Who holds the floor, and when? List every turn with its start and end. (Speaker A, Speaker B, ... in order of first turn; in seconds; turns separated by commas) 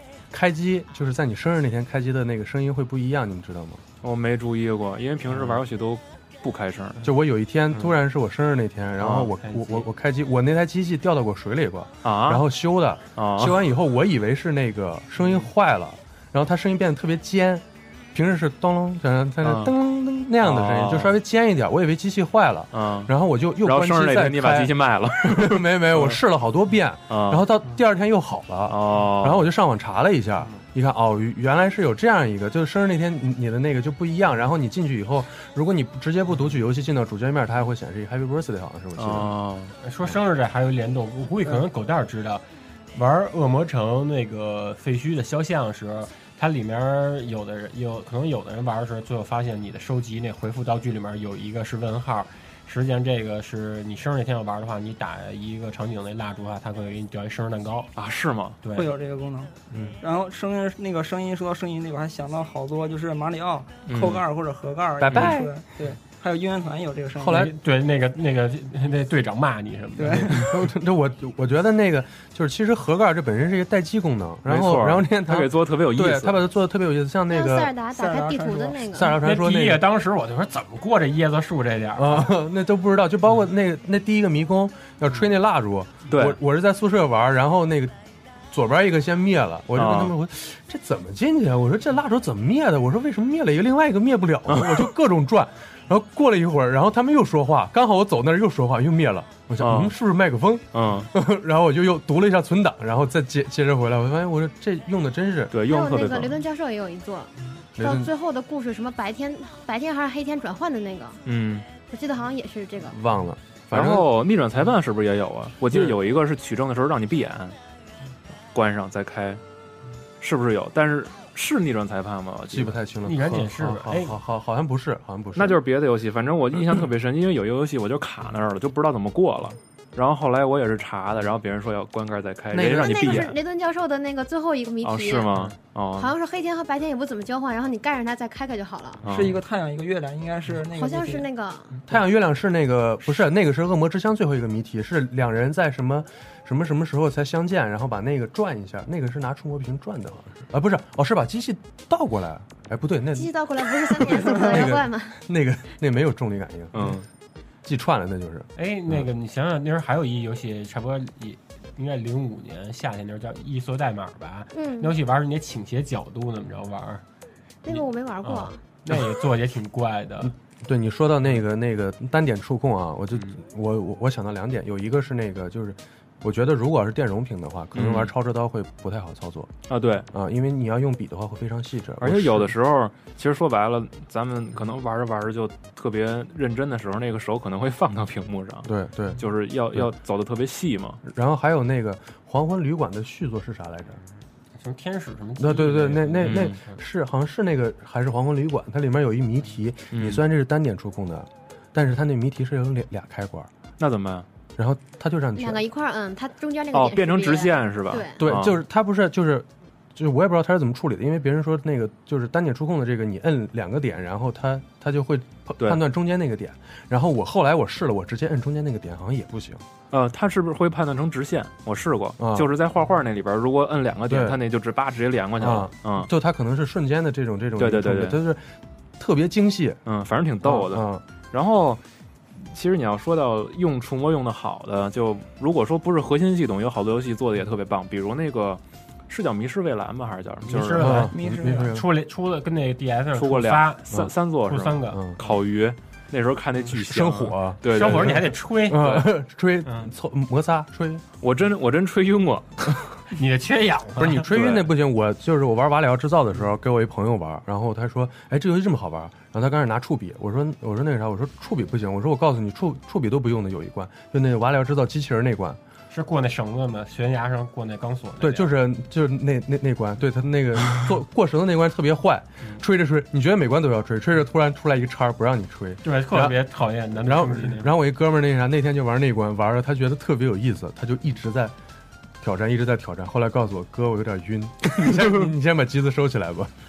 Speaker A: 0.3-3.8, Speaker B: 4.0-7.0, Speaker A: 7.0-39.3, Speaker B: 9.0-9.3, Speaker C: 9.4-9.9, Speaker B: 12.0-12.5, Speaker B: 13.2-13.6, Speaker C: 15.2-15.5, Speaker B: 19.4-19.8, Speaker B: 20.4-21.2, Speaker B: 22.7-26.2, Speaker B: 27.1-27.5, Speaker B: 28.7-29.5, Speaker B: 39.0-39.8, Speaker C: 39.8-57.9, Speaker B: 58.0-58.6, Speaker C: 58.6-58.9, Speaker D: 58.8-67.5, Speaker B: 63.9-64.2, Speaker A: 65.0-65.5, Speaker B: 65.1-65.4, Speaker A: 67.2-67.5, Speaker C: 67.3-70.6, Speaker D: 70.0-70.3, Speaker A: 70.3-77.7, Speaker B: 74.5-76.5, Speaker E: 77.3-79.2, Speaker D: 77.9-79.0, Speaker A: 78.9-79.8, Speaker C: 79.1-82.3, Speaker A: 82.0-87.9, Speaker B: 86.1-86.4, Speaker A: 88.5-105.5, Speaker B: 89.7-90.2, Speaker B: 94.5-94.9, Speaker B: 99.6-100.0, Speaker B: 100.7-101.1, Speaker B: 105.5-106.4, Speaker E: 105.6-111.2, Speaker A: 107.8-108.1, Speaker B: 111.3-111.7, Speaker E: 111.9-113.0, Speaker A: 112.9-114.1, Speaker B: 113.7-117.6, Speaker B: 118.5-119.4, Speaker B: 120.2-122.8, Speaker A: 122.5-125.6, Speaker C: 123.0-124.2, Speaker B: 125.3-133.4, Speaker A: 132.6-133.3, Speaker E: 132.6-135.3, Speaker B: 134.8-136.1, Speaker E: 135.9-139.0, Speaker B: 139.0-139.4, Speaker D: 139.1-141.3, Speaker E: 140.7-141.8, Speaker A: 141.9-153.3, Speaker E: 153.1-155.2, Speaker A: 153.9-157.0, Speaker B: 156.7-157.1, Speaker A: 157.7-159.0, Speaker C: 158.6-167.0, Speaker E: 164.5-164.9, Speaker E: 167.7-168.6, Speaker C: 167.7-170.3, Speaker A: 170.2-179.5, Speaker C: 173.1-173.4, Speaker B: 177.7-178.1, Speaker B: 179.7-180.1, Speaker A: 180.1-182.5, Speaker B: 182.0-191.0, Speaker A: 188.7-189.2, Speaker A: 191.0-194.0, Speaker C: 194.6-196.8, Speaker A: 195.4-203.5, Speaker B: 196.2-196.6, Speaker B: 199.9-200.2, Speaker B: 203.8-204.3, Speaker A: 204.6-205.6, Speaker E: 205.4-208.2, Speaker B: 206.7-208.6, Speaker A: 208.2-219.6, Speaker B: 219.9-226.1, Speaker A: 222.2-222.5, Speaker A: 224.1-224.4, Speaker A: 225.4-229.8, Speaker B: 227.6-228.2, Speaker B: 229.8-231.8, Speaker A: 230.4-231.0, Speaker B: 232.3-241.1, Speaker C: 240.5-245.0, Speaker A: 240.8-241.9, Speaker D: 241.1-241.7, Speaker B: 243.1-248.2, Speaker A: 244.9-245.2, Speaker A: 246.8-251.0, Speaker C: 247.6-249.1, Speaker C: 249.6-249.9, Speaker B: 251.2-252.8, Speaker C: 253.1-254.5, Speaker A: 254.0-265.6, Speaker B: 254.3-254.7, Speaker C: 265.9-268.6, Speaker A: 268.2-276.4, Speaker C: 275.8-277.7, Speaker A: 277.0-281.6, Speaker A: 282.2-286.5, Speaker B: 284.8-285.2